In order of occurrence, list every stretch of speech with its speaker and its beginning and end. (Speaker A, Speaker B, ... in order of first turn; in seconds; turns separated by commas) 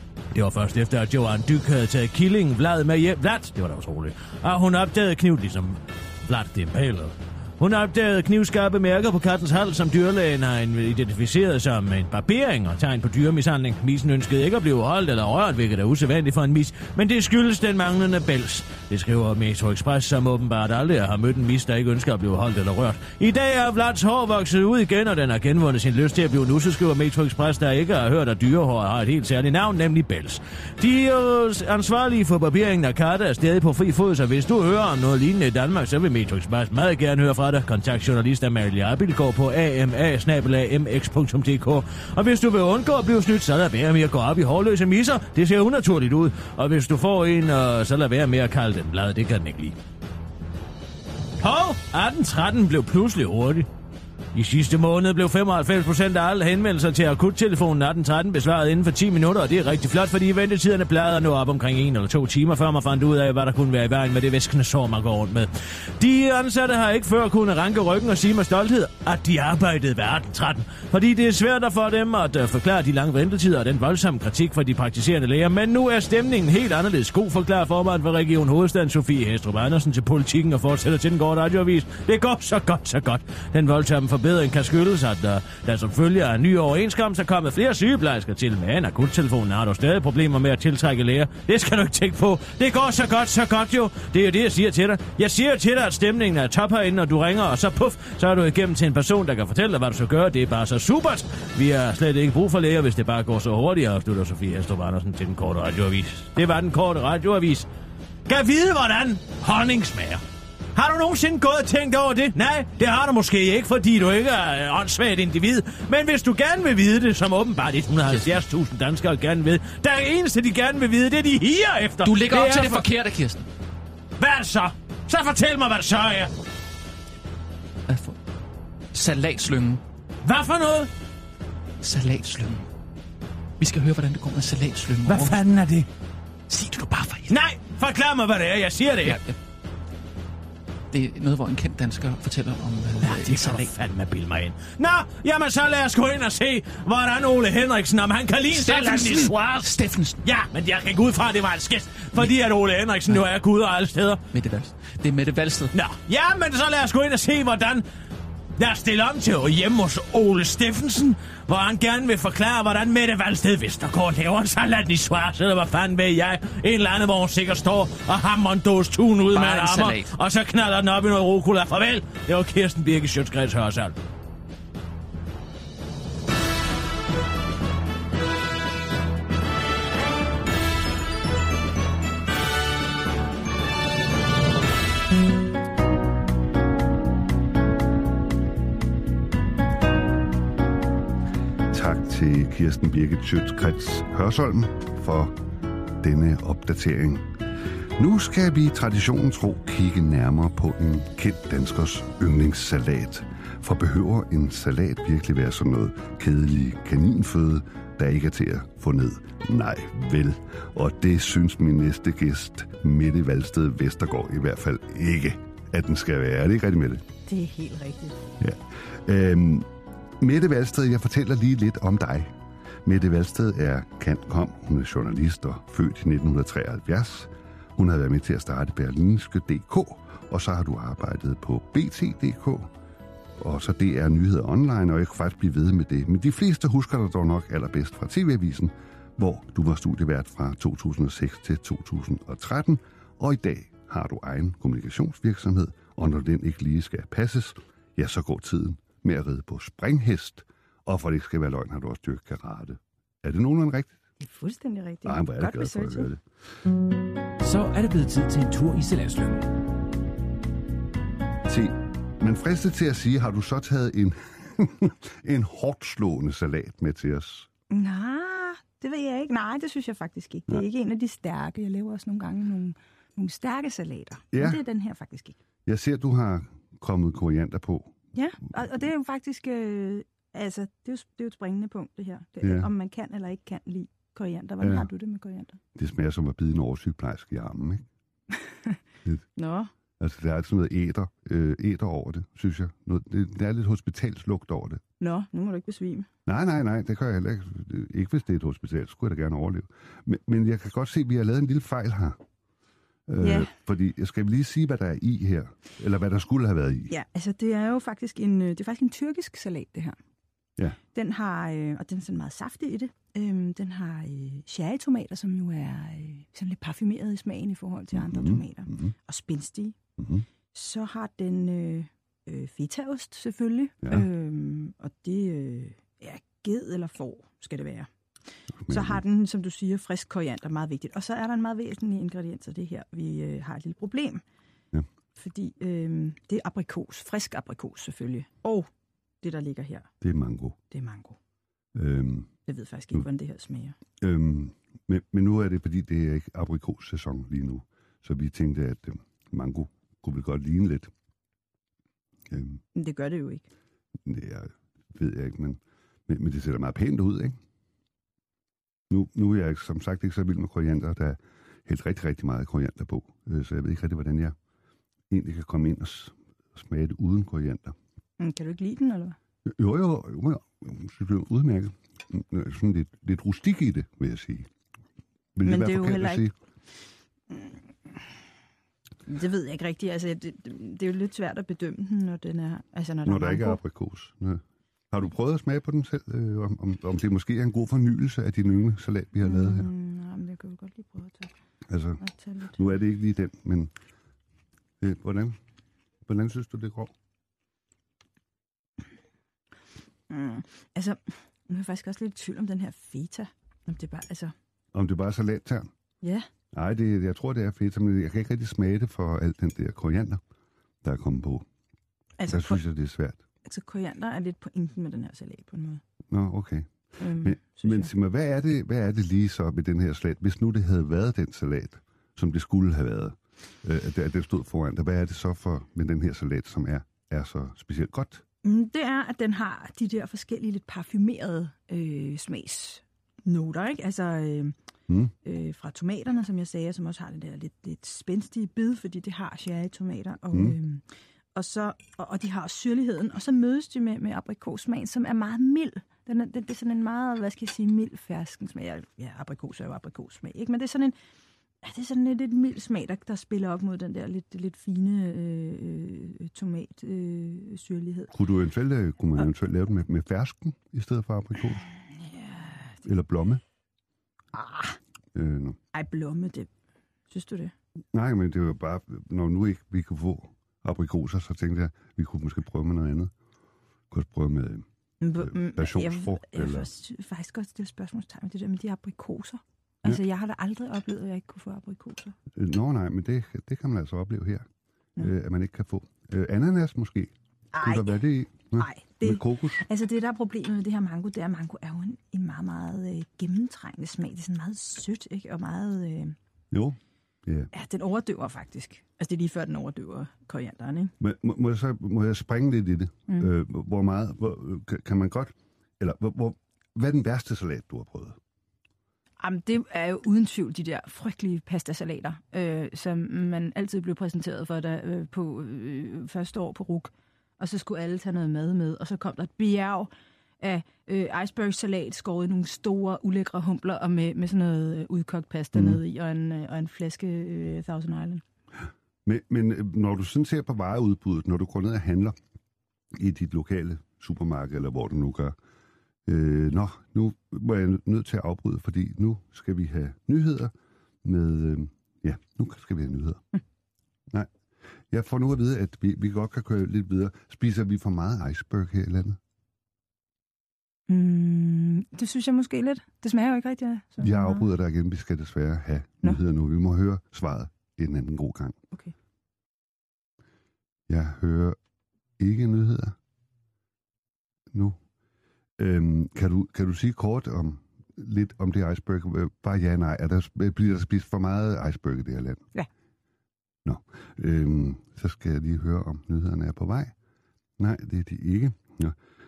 Speaker A: 0.3-49.8, Speaker A: 51.4-53.7, Speaker A: 54.3-107.7, Speaker A: 108.3-110.2, Speaker A: 110.8-122.9, Speaker B: 118.1-118.4, Speaker B: 122.0-123.5, Speaker A: 124.2-126.3, Speaker B: 127.9-128.2, Speaker B: 128.9-129.8, Speaker A: 130.2-130.9, Speaker B: 131.8-132.7, Speaker B: 133.6-135.4, Speaker A: 135.1-135.9, Speaker B: 136.5-137.3, Speaker A: 137.3-139.2, Speaker B: 139.0-139.4, Speaker B: 140.9-143.7, Speaker A: 143.0-154.2, Speaker B: 148.5-150.2, Speaker B: 154.3-155.7, Speaker A: 155.7-157.8, Speaker A: 158.6-174.0, Speaker B: 169.3-170.1, Speaker C: 191.7-195.3, Speaker C: 196.0-197.3, Speaker C: 198.0-217.0, Speaker D: 217.3-218.2, Speaker C: 218.4-219.7, Speaker C: 220.2-222.3, Speaker C: 222.8-232.7, Speaker C: 233.4-254.0, Speaker D: 254.2-256.1, Speaker C: 255.0-256.2, Speaker E: 257.4-259.5, Speaker C: 261.5-267.5, Speaker D: 267.7-275.4, Speaker C: 274.3-274.6, Speaker C: 275.7-277.9, Speaker D: 278.1-285.6, Speaker C: 282.4-282.7, Speaker C: 284.6-284.9, Speaker C: 285.8-287.9, Speaker D: 289.4-289.7, Speaker C: 290.0-294.8, Speaker D: 295.0-296.1, Speaker C: 296.3-302.2, Speaker C: 303.1-306.9, Speaker D: 303.2-303.5, Speaker D: 306.9-310.0, Speaker D: 310.9-319.8, Speaker C: 317.9-318.9, Speaker C: 320.0-320.3, Speaker D: 320.5-327.9, Speaker C: 328.6-329.0, Speaker D: 328.7-334.2, Speaker D: 335.2-338.7, Speaker D: 339.2-339.9, Speaker C: 340.0-340.6, Speaker D: 340.7-341.2, Speaker C: 341.8-342.3, Speaker D: 342.5-343.8, Speaker C: 344.0-350.9, Speaker C: 352.3-352.6, Speaker D: 352.8-353.5, Speaker C: 354.1-357.4, Speaker C: 358.9-364.4, Speaker C: 365.1-367.8, Speaker D: 368.2-369.2, Speaker C: 369.5-374.5, Speaker C: 375.4-376.3, Speaker D: 375.4-376.3, Speaker D: 377.3-378.0, Speaker D: 379.1-383.6, Speaker C: 383.1-389.7, Speaker D: 389.2-391.3, Speaker C: 391.7-393.7, Speaker D: 392.0-392.7, Speaker C: 394.8-395.4, Speaker C: 396.1-396.9, Speaker D: 400.1-404.3, Speaker C: 404.7-405.7, Speaker D: 406.0-406.3, Speaker C: 406.5-410.2, Speaker C: 410.8-411.4, Speaker D: 412.2-412.6, Speaker C: 412.3-413.2, Speaker D: 413.4-415.8, Speaker C: 416.1-428.2, Speaker D: 417.0-417.9, Speaker D: 428.4-434.6, Speaker D: 435.2-440.8, Speaker C: 440.3-440.6, Speaker D: 441.3-451.0, Speaker D: 451.6-458.1, Speaker C: 458.1-461.6, Speaker D: 462.0-462.8, Speaker C: 462.8-463.4, Speaker D: 464.3-464.8, Speaker C: 465.1-465.6, Speaker D: 465.7-466.5, Speaker D: 467.1-467.5, Speaker C: 467.9-473.1, Speaker C: 473.9-474.6, Speaker D: 475.0-482.1, Speaker C: 475.2-476.7, Speaker C: 482.3-484.4, Speaker C: 485.0-489.6, Speaker D: 487.5-488.0, Speaker D: 488.5-496.2, Speaker C: 496.5-497.5, Speaker D: 497.5-500.9, Speaker C: 501.0-508.2, Speaker D: 509.2-528.2, Speaker C: 525.5-525.8, Speaker C: 529.1-532.2, Speaker C: 532.9-535.4, Speaker C: 536.1-543.2, Speaker C: 544.9-549.2, Speaker D: 550.9-554.5, Speaker C: 554.0-558.6, Speaker C: 560.9-561.6, Speaker C: 562.2-563.0, Speaker C: 564.5-564.8, Speaker C: 565.6-572.4, Speaker C: 573.6-576.9, Speaker C: 577.6-579.0